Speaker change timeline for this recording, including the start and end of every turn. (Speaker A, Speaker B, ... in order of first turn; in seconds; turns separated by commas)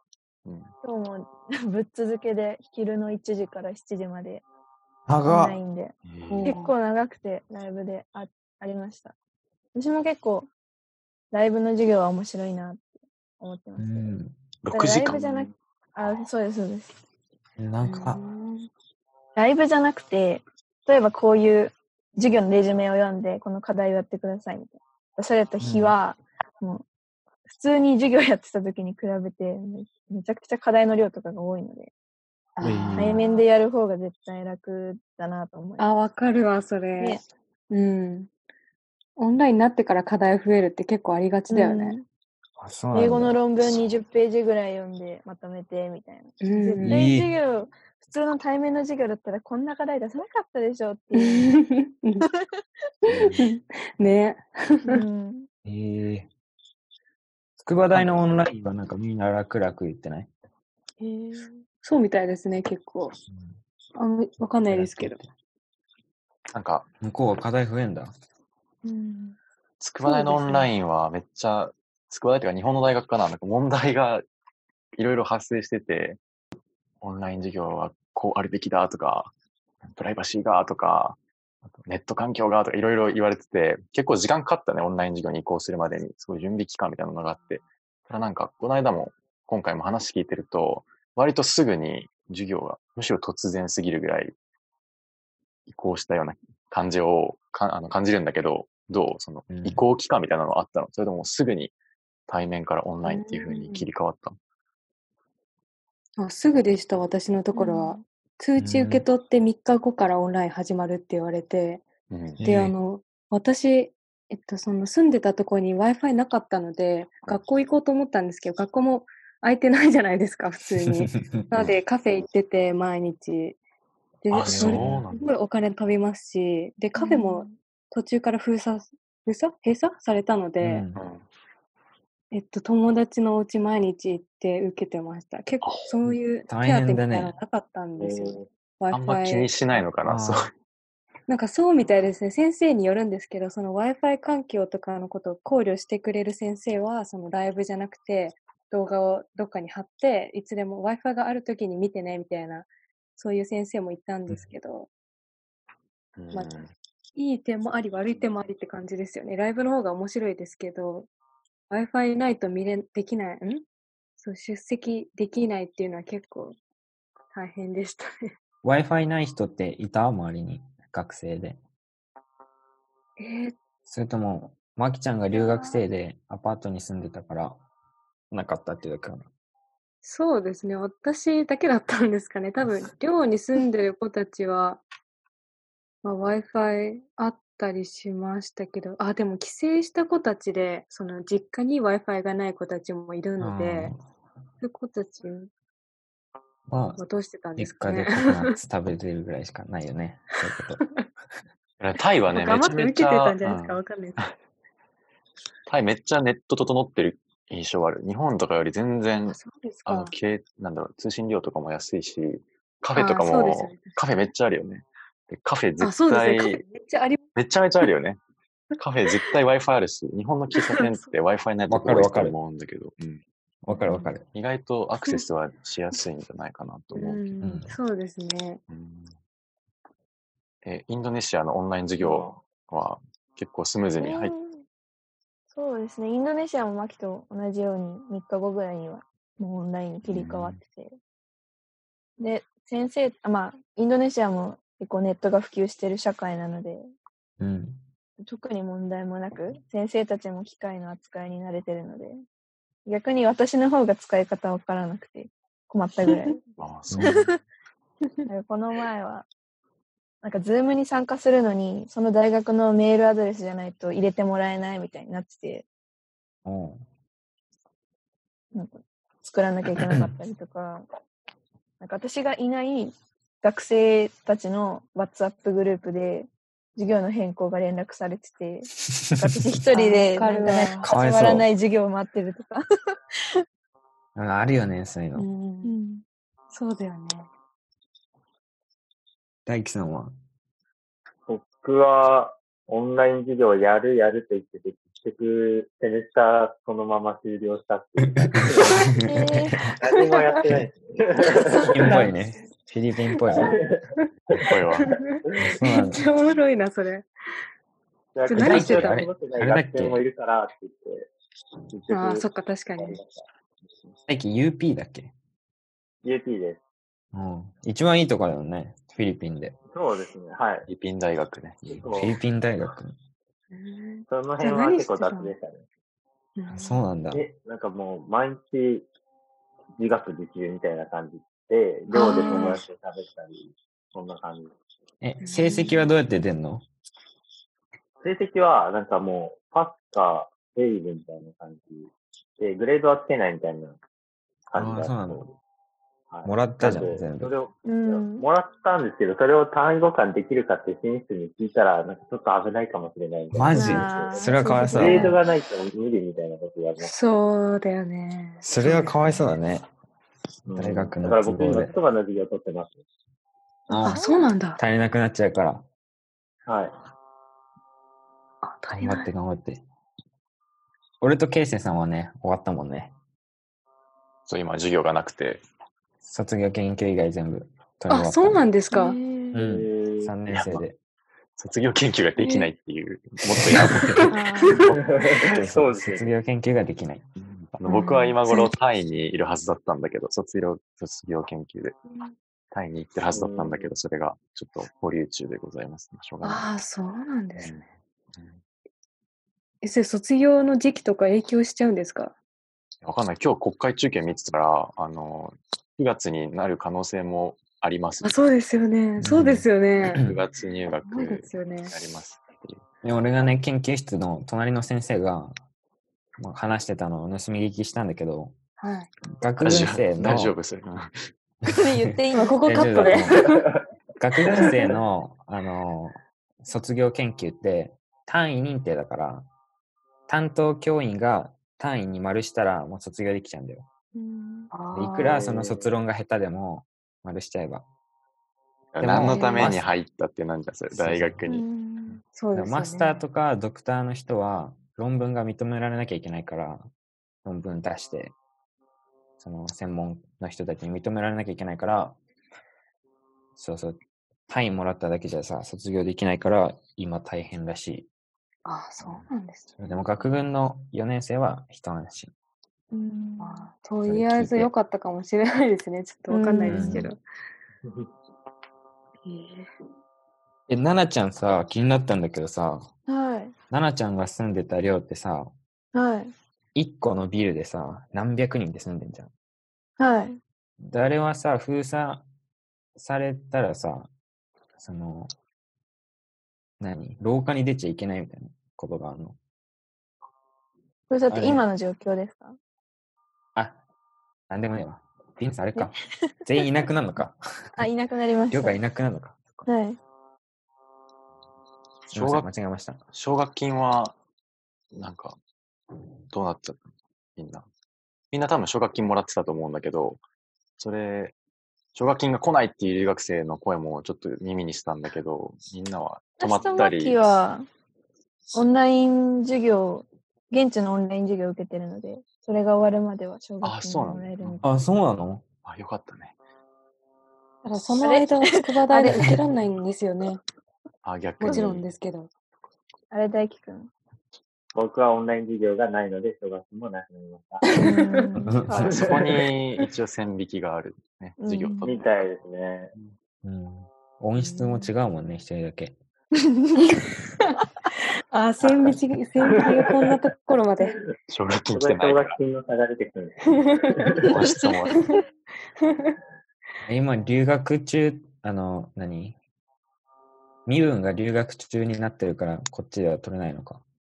Speaker A: 0.4-0.7, Speaker B: 0.8-4.4, Speaker C: 5.1-5.6, Speaker B: 5.2-9.1, Speaker A: 6.0-6.5, Speaker D: 6.3-6.7, Speaker B: 9.7-10.5, Speaker B: 11.3-14.1, Speaker C: 13.8-14.4, Speaker A: 14.6-15.5, Speaker B: 14.7-16.9, Speaker C: 17.6-18.2, Speaker D: 17.8-18.7, Speaker B: 19.4-26.8, Speaker C: 25.6-25.9, Speaker B: 27.5-31.9, Speaker D: 32.6-33.4, Speaker C: 32.6-33.2, Speaker B: 33.0-35.9, Speaker D: 35.8-38.3, Speaker B: 37.0-37.2, Speaker D: 39.2-42.0, Speaker B: 41.5-42.0, Speaker C: 42.6-43.4, Speaker B: 42.9-51.6, Speaker D: 46.4-47.0, Speaker C: 46.8-47.3, Speaker D: 51.1-52.2, Speaker A: 53.1-53.4, Speaker D: 53.2-55.0, Speaker B: 54.9-55.5, Speaker C: 55.6-56.3, Speaker C: 57.6-60.3, Speaker A: 57.9-58.2, Speaker B: 61.0-61.6, Speaker D: 61.8-63.2, Speaker C: 63.3-63.6, Speaker D: 63.9-65.2, Speaker C: 64.7-65.3, Speaker A: 66.5-66.9, Speaker C: 67.0-68.1, Speaker B: 68.8-69.4, Speaker A: 69.8-74.2, Speaker D: 70.0-70.7, Speaker A: 75.0-76.2, Speaker A: 77.0-81.2, Speaker A: 81.8-94.3, Speaker A: 95.7-101.7, Speaker C: 99.5-99.8, Speaker A: 102.3-104.4, Speaker D: 103.0-103.9, Speaker D: 106.2-111.9, Speaker B: 107.5-108.0, Speaker C: 108.6-109.0, Speaker A: 112.1-112.4, Speaker C: 112.4-112.7, Speaker D: 112.4-123.6, Speaker D: 124.2-130.8, Speaker A: 124.3-125.3, Speaker C: 124.5-125.0, Speaker B: 127.0-127.5, Speaker C: 130.6-131.0, Speaker A: 130.9-131.2, Speaker D: 132.3-139.8, Speaker A: 135.6-136.0, Speaker C: 136.5-137.3, Speaker E: 138.0-138.4, Speaker A: 138.9-140.5, Speaker C: 140.0-140.4, Speaker D: 141.3-154.9, Speaker A: 156.2-156.7, Speaker D: 157.1-161.1, Speaker D: 161.7-163.7, Speaker D: 164.2-166.6, Speaker D: 167.3-168.3, Speaker C: 168.6-171.6, Speaker D: 173.2-173.6, Speaker C: 173.8-177.6, Speaker D: 175.3-175.8, Speaker C: 178.3-179.3, Speaker D: 180.0-184.8, Speaker D: 186.0-193.9, Speaker C: 193.4-194.0, Speaker D: 194.6-195.5, Speaker C: 196.7-197.0, Speaker D: 197.0-198.6, Speaker C: 197.6-200.8, Speaker A: 201.8-204.3, Speaker D: 202.3-204.2, Speaker A: 205.7-216.6, Speaker D: 209.3-210.1, Speaker D: 212.9-214.0, Speaker D: 215.8-217.2, Speaker A: 217.3-218.2, Speaker A: 218.8-223.2, Speaker D: 220.6-221.1, Speaker C: 221.7-222.3, Speaker C: 223.6-224.2, Speaker D: 223.7-224.1, Speaker A: 224.3-227.2, Speaker D: 226.9-228.6, Speaker C: 227.4-227.7, Speaker A: 228.7-229.1, Speaker A: 230.6-234.3, Speaker E: 232.0-232.4, Speaker B: 234.0-234.6, Speaker B: 235.5-240.9, Speaker A: 240.0-240.6, Speaker B: 242.2-246.9, Speaker C: 247.4-247.8, Speaker B: 248.2-252.2, Speaker B: 252.8-256.4, Speaker D: 256.1-256.4, Speaker A: 256.6-257.3, Speaker C: 256.9-257.2, Speaker B: 257.0-257.3, Speaker B: 258.3-259.3, Speaker B: 260.2-265.6, Speaker C: 266.4-266.8, Speaker B: 268.5-270.9, Speaker C: 269.8-270.1, Speaker B: 271.8-282.6, Speaker C: 279.0-279.3, Speaker D: 279.7-280.9, Speaker C: 280.8-281.5, Speaker C: 284.1-285.3, Speaker D: 285.1-285.7, Speaker B: 285.6-286.0, Speaker D: 286.5-287.3, Speaker C: 289.4-290.1, Speaker E: 291.3-298.9, Speaker C: 298.2-299.7, Speaker B: 298.9-299.6, Speaker E: 299.8-302.0, Speaker D: 301.6-302.1, Speaker C: 301.7-303.6, Speaker E: 303.4-304.8, Speaker A: 304.5-304.9, Speaker D: 304.8-307.1, Speaker C: 305.4-306.0, Speaker E: 308.1-311.1, Speaker D: 308.2-309.0, Speaker C: 308.3-310.0, Speaker E: 311.7-312.2, Speaker D: 311.9-313.0, Speaker E: 312.8-313.2, Speaker C: 314.1-315.1, Speaker E: 316.0-316.6, Speaker C: 317.1-319.6, Speaker E: 319.7-320.7, Speaker A: 320.7-321.8, Speaker E: 321.7-322.2, Speaker C: 321.9-322.9, Speaker D: 323.5-325.3, Speaker E: 324.1-325.6, Speaker D: 326.4-326.8, Speaker C: 326.5-327.2, Speaker E: 327.1-328.9, Speaker E: 329.8-334.5, Speaker D: 331.9-332.6, Speaker B: 331.9-332.6, Speaker C: 335.0-336.6, Speaker D: 335.2-335.9, Speaker E: 338.0-343.8, Speaker E: 344.5-345.3, Speaker C: 344.6-345.2, Speaker E: 346.1-356.9, Speaker C: 346.2-347.3, Speaker B: 347.6-348.3, Speaker C: 353.3-355.1, Speaker B: 353.5-355.1, Speaker D: 354.8-355.1, Speaker D: 356.8-359.2, Speaker C: 358.4-359.7, Speaker E: 360.4-362.8, Speaker C: 360.6-361.7, Speaker C: 363.7-364.0, Speaker B: 363.7-364.3, Speaker D: 363.8-364.6, Speaker C: 364.6-365.6, Speaker E: 366.4-366.7, Speaker D: 368.4-369.1, Speaker C: 368.7-369.6, Speaker C: 371.0-372.9, Speaker A: 374.3-375.4, Speaker C: 376.0-378.4, Speaker D: 377.9-379.0, Speaker B: 378.7-379.4, Speaker C: 379.3-380.8, Speaker E: 379.4-380.1, Speaker A: 380.3-380.6, Speaker A: 381.4-384.1, Speaker D: 382.2-382.5, Speaker C: 383.5-384.0, Speaker D: 383.9-384.6, Speaker B: 384.1-384.6, Speaker E: 384.7-386.1, Speaker C: 385.2-387.1, Speaker A: 387.2-391.8, Speaker D: 387.7-388.5, Speaker A: 392.5-396.5, Speaker E: 393.1-393.7, Speaker D: 396.2-397.6, Speaker A: 397.4-398.4, Speaker D: 399.6-402.1, Speaker A: 402.8-408.1, Speaker D: 408.0-410.0, Speaker C: 409.0-409.5, Speaker A: 409.9-412.6, Speaker D: 410.8-411.7, Speaker C: 412.8-415.4, Speaker C: 416.2-418.4, Speaker D: 418.6-418.9, Speaker C: 419.2-420.3, Speaker A: 419.4-421.1, Speaker B: 421.5-422.9, Speaker D: 422.1-423.4, Speaker C: 422.4-423.3, Speaker E: 423.3-423.5, Speaker C: 424.0-429.3, Speaker E: 424.3-424.8, Speaker C: 430.1-433.7, Speaker B: 433.9-434.5, Speaker D: 434.5-435.2, Speaker C: 434.7-437.6, Speaker E: 435.0-435.7, Speaker A: 438.7-441.4, Speaker C: 438.8-439.6, Speaker D: 438.9-439.5, Speaker C: 440.7-441.2, Speaker B: 441.2-442.0, Speaker D: 442.1-443.0, Speaker C: 442.3-446.7, Speaker C: 447.2-448.1, Speaker C: 449.2-452.0, Speaker C: 453.4-457.9, Speaker D: 458.4-459.5, Speaker C: 458.8-459.1, Speaker C: 459.6-462.1, Speaker B: 462.7-463.5, Speaker D: 463.2-467.0, Speaker C: 463.9-464.5, Speaker B: 466.1-466.9, Speaker C: 466.4-466.9, Speaker D: 469.0-469.5, Speaker C: 470.5-472.7, Speaker B: 472.9-473.3, Speaker C: 473.5-475.3, Speaker B: 475.7-476.1, Speaker C: 476.5-479.1, Speaker B: 479.8-480.2, Speaker C: 480.6-482.1, Speaker C: 482.8-483.9, Speaker C: 484.6-485.1, Speaker C: 486.6-489.2, Speaker B: 490.9-492.4, Speaker C: 491.1-491.4, Speaker C: 493.3-493.6, Speaker C: 494.3-497.5, Speaker B: 495.6-496.1, Speaker B: 497.6-498.6, Speaker C: 498.3-499.5, Speaker B: 499.4-499.8, Speaker A: 501.9-502.3, Speaker C: 501.9-502.8, Speaker A: 502.9-504.0, Speaker A: 504.7-505.2, Speaker A: 506.1-507.5, Speaker A: 508.1-510.0, Speaker A: 510.6-511.1, Speaker A: 511.7-517.2, Speaker B: 516.2-517.5, Speaker B: 518.3-524.5, Speaker A: 523.4-524.4, Speaker C: 524.4-525.2, Speaker A: 525.4-526.1, Speaker D: 527.4-530.2, Speaker B: 527.8-529.1, Speaker A: 530.8-531.7, Speaker D: 531.2-532.1, Speaker B: 532.9-533.7, Speaker E: 534.5-537.5, Speaker D: 537.5-538.0, Speaker B: 537.5-538.5, Speaker C: 538.2-538.7, Speaker A: 538.5-542.0, Speaker E: 538.5-539.3, Speaker B: 541.2-541.7, Speaker E: 541.6-542.7, Speaker C: 543.2-545.8, Speaker D: 544.2-544.7, Speaker B: 546.4-546.8, Speaker D: 548.1-550.8, Speaker E: 548.4-549.2, Speaker A: 551.1-552.2, Speaker E: 551.5-554.2, Speaker D: 553.3-554.0, Speaker A: 554.0-554.9, Speaker B: 554.2-554.7, Speaker D: 554.7-555.0, Speaker D: 555.6-556.0, Speaker C: 556.6-559.2, Speaker C: 560.5-563.6